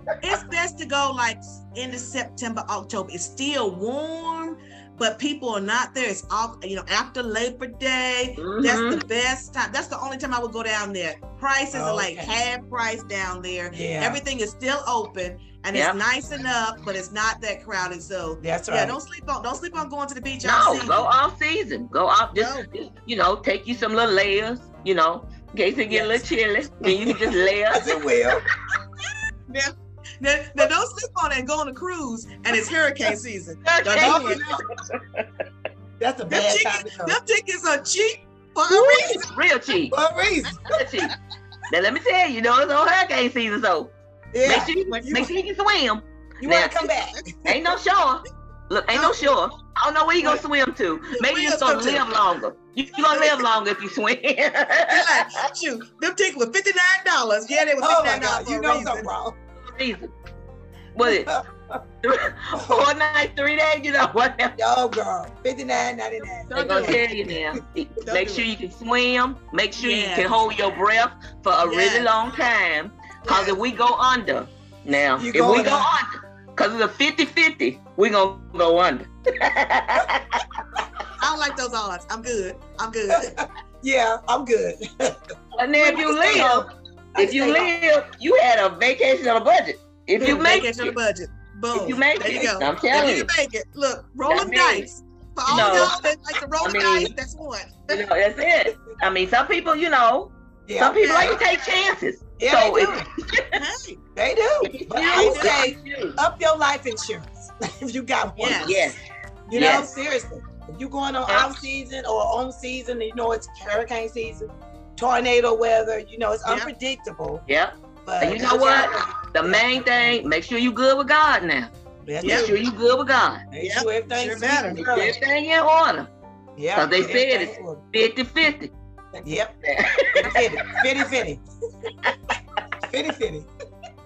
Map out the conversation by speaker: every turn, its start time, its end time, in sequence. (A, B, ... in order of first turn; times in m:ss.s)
0:00.2-0:21.1 A
0:08.4-0:09.0 B
0:11.7-0:12.3 C
0:13.7-0:14.2 C
0:15.7-0:16.0 B
0:18.4-0:19.0 C
0:20.4-0:27.8 B
0:22.3-0:22.7 A
0:25.9-0:26.2 A
0:27.0-0:28.4 C
0:29.5-0:34.4 A
0:33.6-0:35.2 B
0:34.0-0:34.6 C
0:36.0-0:37.2 C
0:36.3-0:39.3 A
0:38.7-0:39.2 C
0:39.2-0:39.9 B
0:39.9-0:40.6 C
0:40.4-0:40.8 A
0:40.7-0:41.1 B
0:41.7-0:43.9 B
0:44.3-0:45.3 C
0:44.4-0:46.8 B
0:46.4-0:47.6 C
0:47.5-0:55.2 B
0:48.9-0:49.3 A
0:51.2-0:52.1 A
0:53.1-0:53.4 A
0:54.9-0:59.1 A
0:57.8-0:59.4 C
0:59.7-1:00.1 B
1:01.0-1:01.3 B
1:01.0-1:01.8 C
1:02.0-1:04.6 B
1:02.6-1:02.9 C
1:04.6-1:07.1 C
1:06.5-1:07.1 A
1:06.6-1:20.4 B
1:08.0-1:08.5 A
1:09.8-1:10.4 A
1:11.6-1:12.2 A
1:13.2-1:13.6 A
1:15.2-1:15.9 C
1:21.2-1:23.4 A
1:23.2-1:25.2 C
1:25.6-1:31.0 B
1:25.7-1:27.7 C
1:30.2-1:38.0 A
1:31.7-1:33.3 B
1:34.3-1:34.9 B
1:35.5-1:35.9 B
1:35.5-1:35.8 C
1:36.6-1:37.1 B
1:37.9-1:43.5 B
1:40.7-1:41.4 C
1:41.0-1:41.4 A
1:42.4-1:43.1 C
1:43.6-1:44.0 A
1:44.2-1:48.9 C
1:44.7-1:46.2 B
1:45.0-1:45.6 A
1:48.4-1:49.0 A
1:48.6-1:49.0 B
1:49.5-1:57.4 C
1:49.5-1:49.9 B
1:57.5-2:03.4 B
1:58.0-2:00.2 C
2:02.0-2:02.6 C
2:02.2-2:02.6 A
2:03.5-2:05.2 C
2:03.6-2:04.8 A
2:04.7-2:06.1 B
2:06.6-2:07.8 C
2:06.7-2:08.7 B
2:09.2-2:09.5 C
2:09.6-2:10.4 B
2:10.2-2:11.4 C
2:12.9-2:13.5 C